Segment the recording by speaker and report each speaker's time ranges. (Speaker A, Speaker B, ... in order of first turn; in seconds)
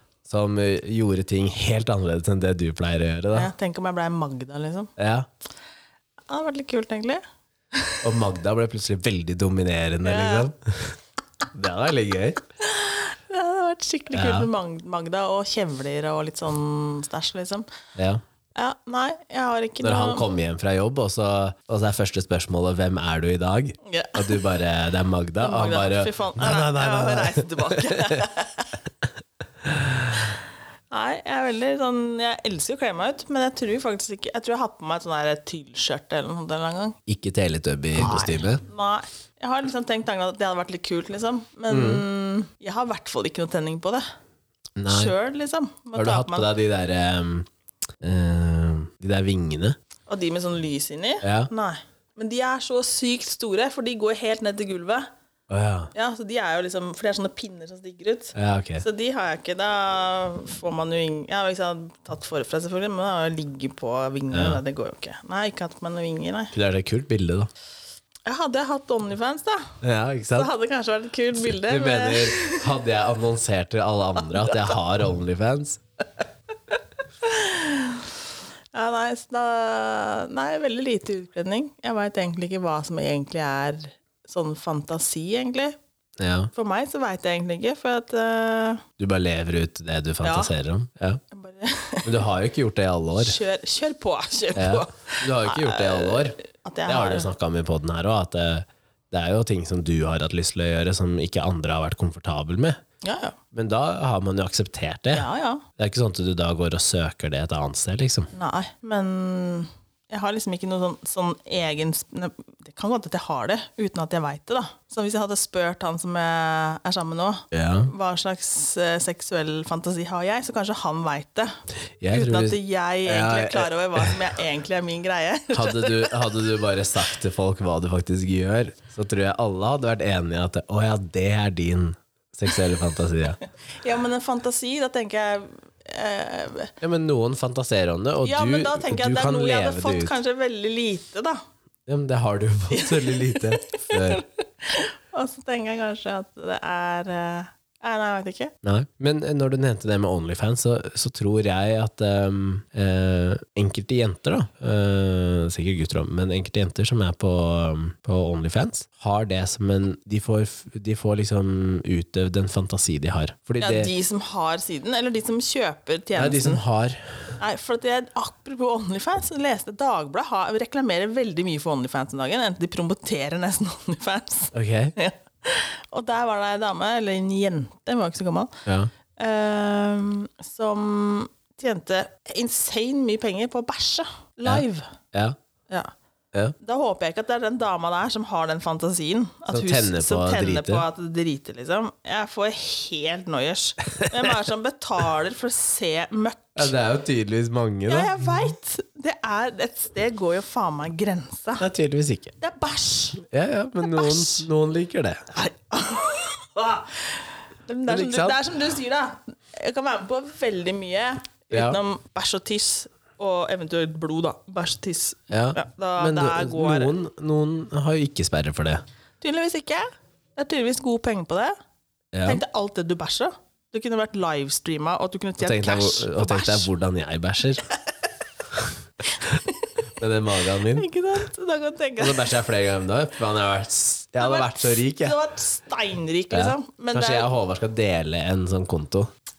Speaker A: 0.3-3.5, 5.0-5.3, 8.0-11.0, 11.5-12.4, 14.1-14.5, 18.0-18.2, 19.8-28.2, 29.6-30.3, 37.1-38.6, 41.7-42.1, 44.8-45.2, 46.0-47.5, 48.0-49.8, 51.2-51.5, 55.5-55.9, 58.4-58.9, 64.3-64.6, 66.5-67.5, 69.8-70.5, 71.4-75.8, 86.2-86.5, 89.0-91.2, 92.0-93.4, 94.5-102.8, 103.5-108.3, 117.5-117.9, 122.0-124.2, 125.5-133.4, 136.8-140.1, 141.9-144.2, 148.6-163.9, 166.2-167.1, 174.5-174.9, 178.7-178.9, 184.5-185.4, 189.5-190.9, 194.0-194.3, 196.6-198.1, 201.6-202.3, 203.2-205.2, 207.9-208.4, 211.5-211.8, 215.3-218.8, 222.1-222.4, 225.4-227.7, 230.0-230.9, 232.0-235.2, 236.3-239.1
Speaker B: 3.3-4.9, 6.3-7.2, 7.8-8.1, 10.0-10.5, 12.6-17.7, 18.6-20.2, 23.9-24.5, 25.4-28.8, 30.9-37.0, 38.0-44.0, 44.9-46.5, 50.1-55.1, 55.9-66.5, 68.3-69.8, 70.3-72.7, 77.2-78.1, 78.7-85.8, 86.5-88.8, 90.2-90.5, 91.3-92.2, 93.2-97.3, 103.0-103.4, 105.1-105.6, 108.3-121.6, 122.1-126.4, 133.8-136.7, 138.2-141.4, 142.7-148.5, 163.6-166.6, 167.4-178.6, 179.2-184.9, 186.6-196.7, 197.9-201.7, 202.4-203.2, 203.8-204.5, 205.3-216.9, 219.2-221.5, 222.2-226.7, 229.1-229.8, 230.7-232.3, 234.2-237.3